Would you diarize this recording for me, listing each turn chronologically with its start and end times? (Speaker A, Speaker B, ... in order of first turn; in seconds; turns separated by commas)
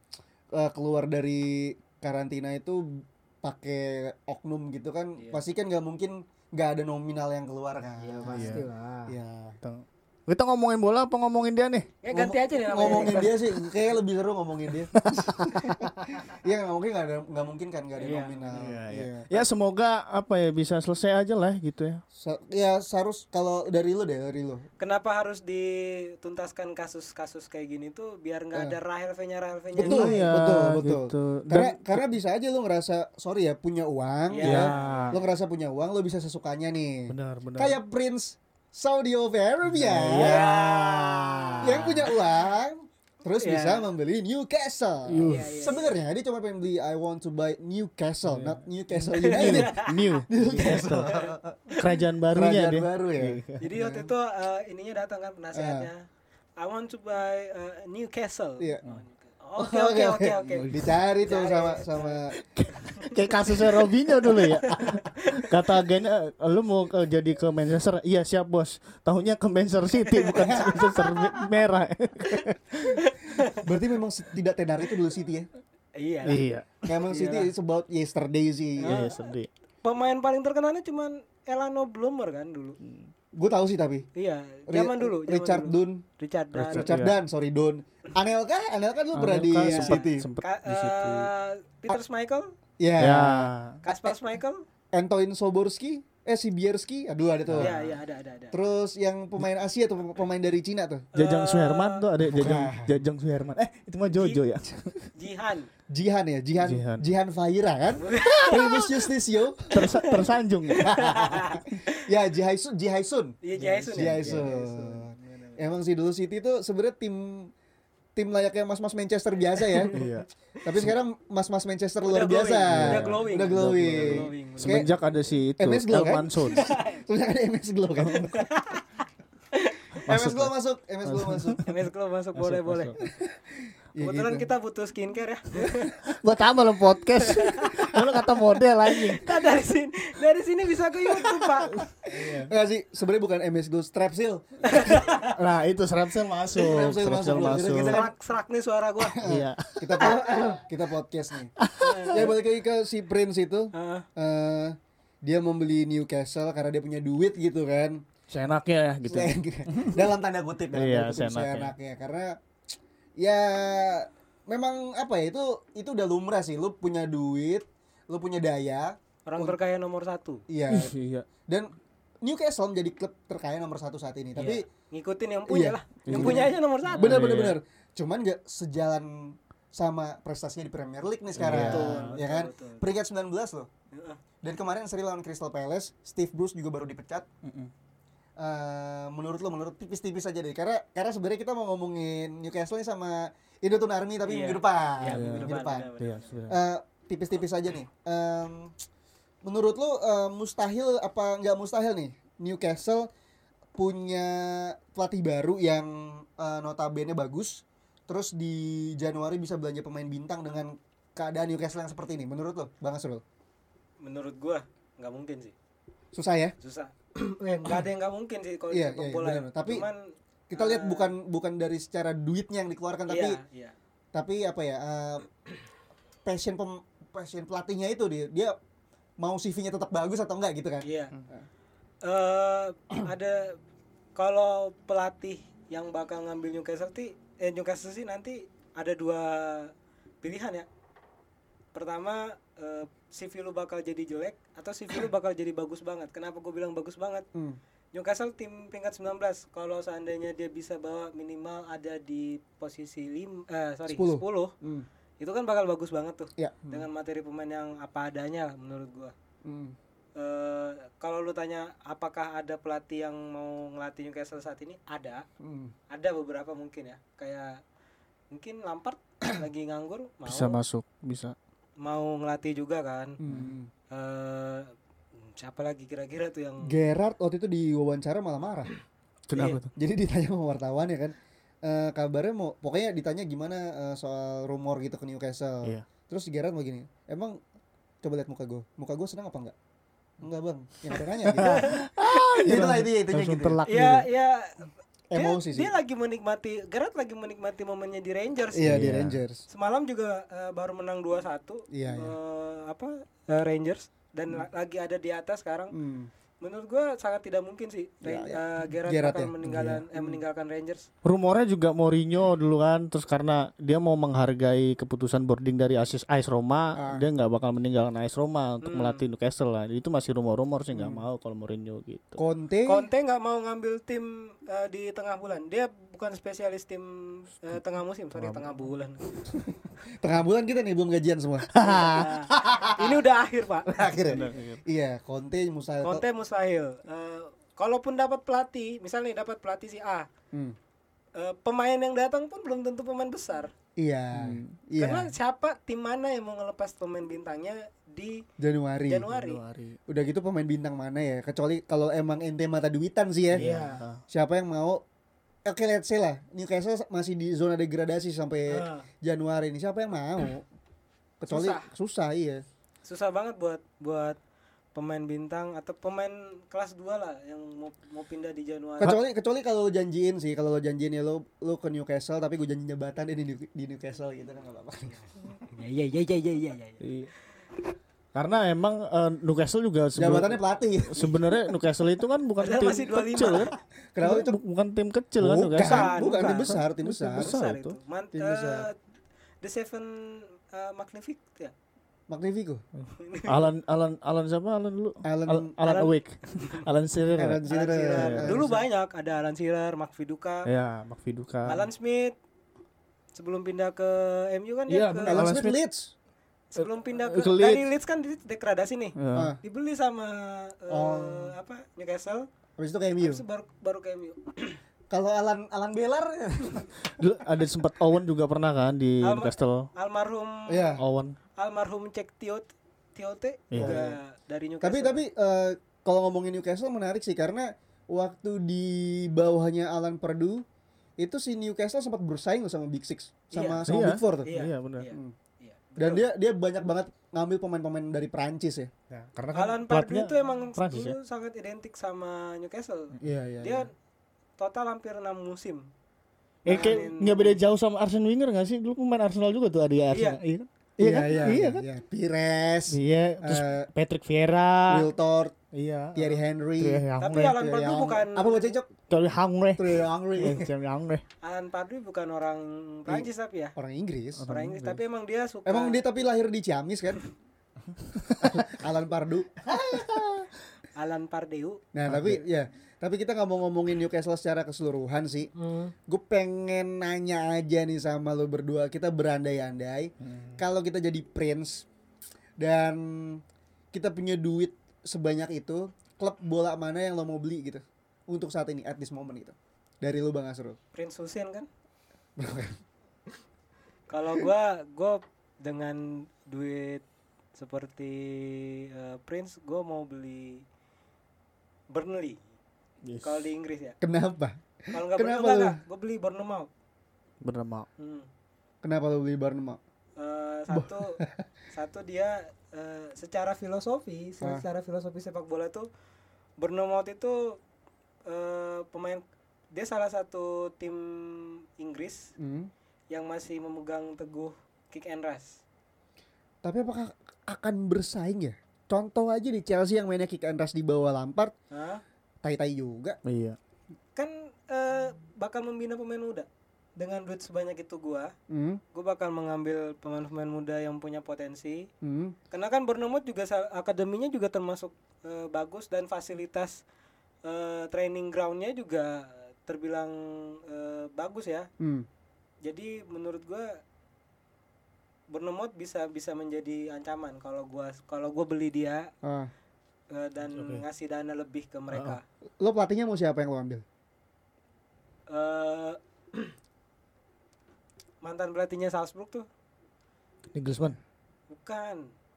Speaker A: 0.5-9.6, Speaker B: 5.2-5.4, Speaker B: 8.0-9.1, Speaker C: 8.3-8.7, Speaker C: 9.6-11.9, Speaker B: 12.0-13.4, Speaker A: 12.1-19.3, Speaker C: 14.9-16.2, Speaker B: 18.0-18.6, Speaker C: 18.5-22.0, Speaker A: 22.1-24.6, Speaker B: 24.8-30.2, Speaker A: 29.7-40.4, Speaker C: 29.8-32.1, Speaker B: 34.3-35.1, Speaker C: 34.4-35.2, Speaker C: 37.1-37.8, Speaker C: 39.6-42.1, Speaker B: 40.1-42.1, Speaker A: 41.6-51.8, Speaker B: 43.4-43.9, Speaker C: 45.1-45.5, Speaker B: 45.2-46.0, Speaker C: 48.2-51.2, Speaker B: 49.2-50.1, Speaker B: 51.0-51.3, Speaker C: 51.7-53.7, Speaker A: 52.3-54.1, Speaker B: 53.6-56.0, Speaker A: 55.5-55.9, Speaker B: 56.6-60.7, Speaker A: 59.6-62.4, Speaker C: 60.5-61.0, Speaker B: 61.2-62.2, Speaker C: 62.4-73.0, Speaker B: 64.4-65.4, Speaker B: 70.0-71.5, Speaker A: 70.4-70.7, Speaker B: 73.0-73.6, Speaker A: 73.5-75.5, Speaker B: 75.9-77.5, Speaker C: 76.2-76.7, Speaker A: 76.8-79.0, Speaker B: 78.8-79.2, Speaker C: 78.8-79.5, Speaker B: 79.8-82.8, Speaker C: 82.8-83.1, Speaker A: 83.3-84.0, Speaker B: 84.1-86.9, Speaker A: 84.7-86.0, Speaker C: 86.5-87.1, Speaker A: 86.7-90.3, Speaker C: 89.1-91.3, Speaker B: 89.6-92.5, Speaker A: 92.8-94.2, Speaker C: 93.0-93.8, Speaker B: 93.8-94.6, Speaker A: 94.9-97.9, Speaker C: 97.5-97.8, Speaker B: 97.6-98.5, Speaker A: 98.5-101.0, Speaker B: 101.1-102.0, Speaker C: 101.1-105.1, Speaker A: 102.3-102.9, Speaker B: 104.1-104.4, Speaker B: 105.1-105.7, Speaker A: 105.9-109.8, Speaker C: 106.6-107.0, Speaker B: 108.0-109.0, Speaker C: 109.7-111.0, Speaker B: 109.8-110.2, Speaker B: 110.7-112.0, Speaker A: 110.8-113.4, Speaker B: 113.4-115.5, Speaker C: 113.5-114.5, Speaker A: 113.9-117.5, Speaker A: 118.2-120.0, Speaker B: 119.6-120.1, Speaker C: 119.9-120.3, Speaker A: 120.6-124.9, Speaker B: 122.0-124.9, Speaker C: 122.7-126.7, Speaker A: 125.6-128.5, Speaker B: 126.5-127.0, Speaker C: 128.0-128.3, Speaker B: 128.3-128.8, Speaker B: 129.5-129.9, Speaker C: 130.1-130.5, Speaker A: 130.1-131.6, Speaker C: 131.0-131.7, Speaker B: 131.6-132.9, Speaker C: 132.3-133.0, Speaker A: 133.0-134.5, Speaker B: 134.0-136.0, Speaker C: 136.0-139.3, Speaker B: 137.2-138.2, Speaker B: 138.8-142.0, Speaker C: 141.7-142.5, Speaker A: 142.2-145.0, Speaker B: 144.6-145.4, Speaker C: 145.3-148.0, Speaker A: 146.5-148.1, Speaker B: 147.3-149.2, Speaker A: 149.0-151.5, Speaker C: 149.2-150.1, Speaker B: 150.0-150.6, Speaker C: 151.6-152.3, Speaker B: 151.8-152.3, Speaker A: 152.1-158.0, Speaker B: 153.7-154.1, Speaker C: 158.3-160.1, Speaker A: 159.1-162.4, Speaker C: 160.7-161.7, Speaker A: 163.2-169.6, Speaker B: 169.2-170.4, Speaker A: 170.5-170.9, Speaker C: 170.7-171.3, Speaker A: 171.4-171.7, Speaker A: 172.2-174.6, Speaker B: 174.3-177.1, Speaker A: 175.5-183.7, Speaker C: 176.1-177.6, Speaker C: 181.3-182.2, Speaker B: 181.5-182.8, Speaker B: 183.9-184.2, Speaker A: 184.4-187.3, Speaker C: 187.4-187.7, Speaker A: 188.4-195.9, Speaker B: 194.2-196.3, Speaker C: 195.1-196.6, Speaker A: 196.5-198.7, Speaker A: 199.4-203.1, Speaker A: 203.7-213.2, Speaker B: 214.0-215.5, Speaker A: 216.1-216.5, Speaker B: 216.6-221.1, Speaker A: 218.7-219.9, Speaker A: 220.5-223.4, Speaker B: 223.1-223.7, Speaker A: 224.1-225.3, Speaker A: 226.2-228.6, Speaker A: 229.2-231.4, Speaker B: 230.8-231.1, Speaker B: 232.0-233.6, Speaker B: 234.1-240.7, Speaker B: 241.7-247.2, Speaker B: 247.9-254.5, Speaker A: 253.9-254.8, Speaker B: 255.2-259.1, Speaker A: 256.4-256.9, Speaker A: 259.4-259.8, Speaker B: 260.1-265.2, Speaker A: 265.4-265.7, Speaker B: 265.9-267.6, Speaker B: 268.3-270.6, Speaker C: 270.2-271.3, Speaker B: 271.8-273.2, Speaker A: 273.2-273.7, Speaker B: 273.9-274.7, Speaker B: 275.2-276.7, Speaker A: 276.6-278.7, Speaker C: 279.3-279.7, Speaker A: 279.3-287.4, Speaker A: 288.0-289.5, Speaker A: 290.2-291.7, Speaker C: 291.2-294.1, Speaker B: 291.4-292.6, Speaker A: 292.4-293.6, Speaker B: 293.6-298.7, Speaker A: 295.1-295.7, Speaker A: 298.5-299.4, Speaker C: 298.6-299.2, Speaker B: 299.5-305.7, Speaker A: 301.7-302.1, Speaker A: 305.7-306.1, Speaker B: 306.4-310.9, Speaker A: 308.0-310.2, Speaker C: 309.4-309.8, Speaker C: 311.0-322.2, Speaker A: 316.8-317.0, Speaker B: 318.6-319.0, Speaker A: 320.7-321.0, Speaker A: 322.2-322.9, Speaker B: 322.7-329.0, Speaker C: 328.1-328.7, Speaker A: 330.0-331.6, Speaker C: 331.5-332.5, Speaker B: 331.6-334.3, Speaker A: 332.3-332.9, Speaker A: 333.7-336.0, Speaker C: 334.1-334.6, Speaker B: 335.8-340.1, Speaker B: 341.1-343.5, Speaker A: 343.8-345.1, Speaker C: 344.1-344.5, Speaker B: 344.8-348.2, Speaker A: 348.4-349.0, Speaker B: 348.9-349.4, Speaker C: 349.1-349.8, Speaker A: 349.9-353.4, Speaker C: 353.3-354.0, Speaker B: 353.4-353.8, Speaker A: 354.1-354.8, Speaker A: 355.4-360.4, Speaker B: 358.5-358.9, Speaker A: 361.2-362.4, Speaker B: 361.3-361.6, Speaker B: 362.8-364.2, Speaker B: 364.7-369.0, Speaker A: 368.8-375.3, Speaker B: 375.4-376.8, Speaker C: 376.8-377.1, Speaker C: 378.1-387.8, Speaker A: 380.0-381.1, Speaker B: 382.4-383.5, Speaker A: 383.9-384.4, Speaker A: 385.2-387.3, Speaker B: 385.6-386.6, Speaker B: 387.1-388.7, Speaker A: 388.1-388.7, Speaker B: 389.4-391.5, Speaker A: 392.1-392.6, Speaker C: 392.8-398.4, Speaker B: 393.0-393.5, Speaker A: 395.0-395.5, Speaker B: 395.6-396.6, Speaker A: 397.1-398.6, Speaker B: 397.5-400.5, Speaker C: 400.4-401.7, Speaker B: 401.4-402.1, Speaker B: 403.1-405.2, Speaker C: 404.7-405.6, Speaker A: 405.1-405.9, Speaker B: 406.5-412.3, Speaker C: 406.6-407.7, Speaker C: 408.9-409.3, Speaker A: 409.1-409.4, Speaker A: 410.7-411.3, Speaker A: 412.6-413.2, Speaker B: 413.0-414.6, Speaker A: 414.9-416.8, Speaker C: 416.8-419.7, Speaker B: 419.0-420.7, Speaker A: 420.5-420.8, Speaker C: 420.8-421.1, Speaker B: 421.4-425.0, Speaker C: 423.5-423.8, Speaker A: 423.6-424.0, Speaker A: 424.6-430.4, Speaker A: 431.0-434.3, Speaker B: 433.3-433.7, Speaker C: 433.6-434.9, Speaker B: 434.2-436.1, Speaker A: 435.8-438.7, Speaker C: 438.9-441.0, Speaker B: 439.3-443.7, Speaker A: 443.0-443.6, Speaker B: 444.4-445.7, Speaker B: 446.4-447.4, Speaker C: 446.4-451.6, Speaker B: 449.9-450.2, Speaker A: 450.8-453.7, Speaker B: 451.1-451.4, Speaker C: 452.7-454.9, Speaker A: 454.7-455.3, Speaker C: 455.5-457.4, Speaker A: 455.9-458.7, Speaker B: 457.0-458.5, Speaker C: 458.9-461.0, Speaker A: 459.6-460.5, Speaker B: 461.2-463.5, Speaker A: 462.9-464.2, Speaker C: 464.2-464.8, Speaker B: 464.3-465.8, Speaker A: 465.4-467.0, Speaker C: 467.9-468.6, Speaker A: 468.2-470.2, Speaker C: 469.6-470.1, Speaker B: 470.7-471.6, Speaker A: 471.7-475.3, Speaker C: 471.9-472.2, Speaker B: 475.4-475.7, Speaker A: 475.9-481.6, Speaker C: 480.0-480.4, Speaker A: 482.4-490.6, Speaker B: 490.7-491.5, Speaker A: 492.2-492.6, Speaker B: 493.9-496.8, Speaker B: 497.3-500.4, Speaker B: 501.7-502.2, Speaker C: 502.8-503.2, Speaker B: 503.0-503.8, Speaker A: 503.8-505.6, Speaker B: 504.7-506.5, Speaker C: 507.2-507.7, Speaker B: 507.8-508.1, Speaker A: 508.6-509.6, Speaker B: 510.0-511.0, Speaker A: 510.5-511.2, Speaker B: 511.5-515.7, Speaker B: 516.4-517.4, Speaker B: 518.1-522.1, Speaker A: 522.2-522.5, Speaker B: 522.9-525.4, Speaker A: 526.4-531.3, Speaker B: 531.5-531.8, Speaker A: 532.2-533.0, Speaker C: 533.0-533.4, Speaker B: 534.0-538.1, Speaker A: 538.3-538.6, Speaker B: 538.7-541.7, Speaker A: 541.8-542.1, Speaker B: 542.3-546.6, Speaker B: 547.2-551.5, Speaker A: 551.6-551.9, Speaker B: 552.4-553.6, Speaker B: 555.1-558.9, Speaker A: 559.0-559.3, Speaker B: 559.9-562.0, Speaker C: 560.3-560.6, Speaker C: 561.7-562.0, Speaker A: 562.4-563.6, Speaker B: 565.1-566.3, Speaker B: 568.0-569.3, Speaker C: 570.3-570.8, Speaker B: 571.3-571.9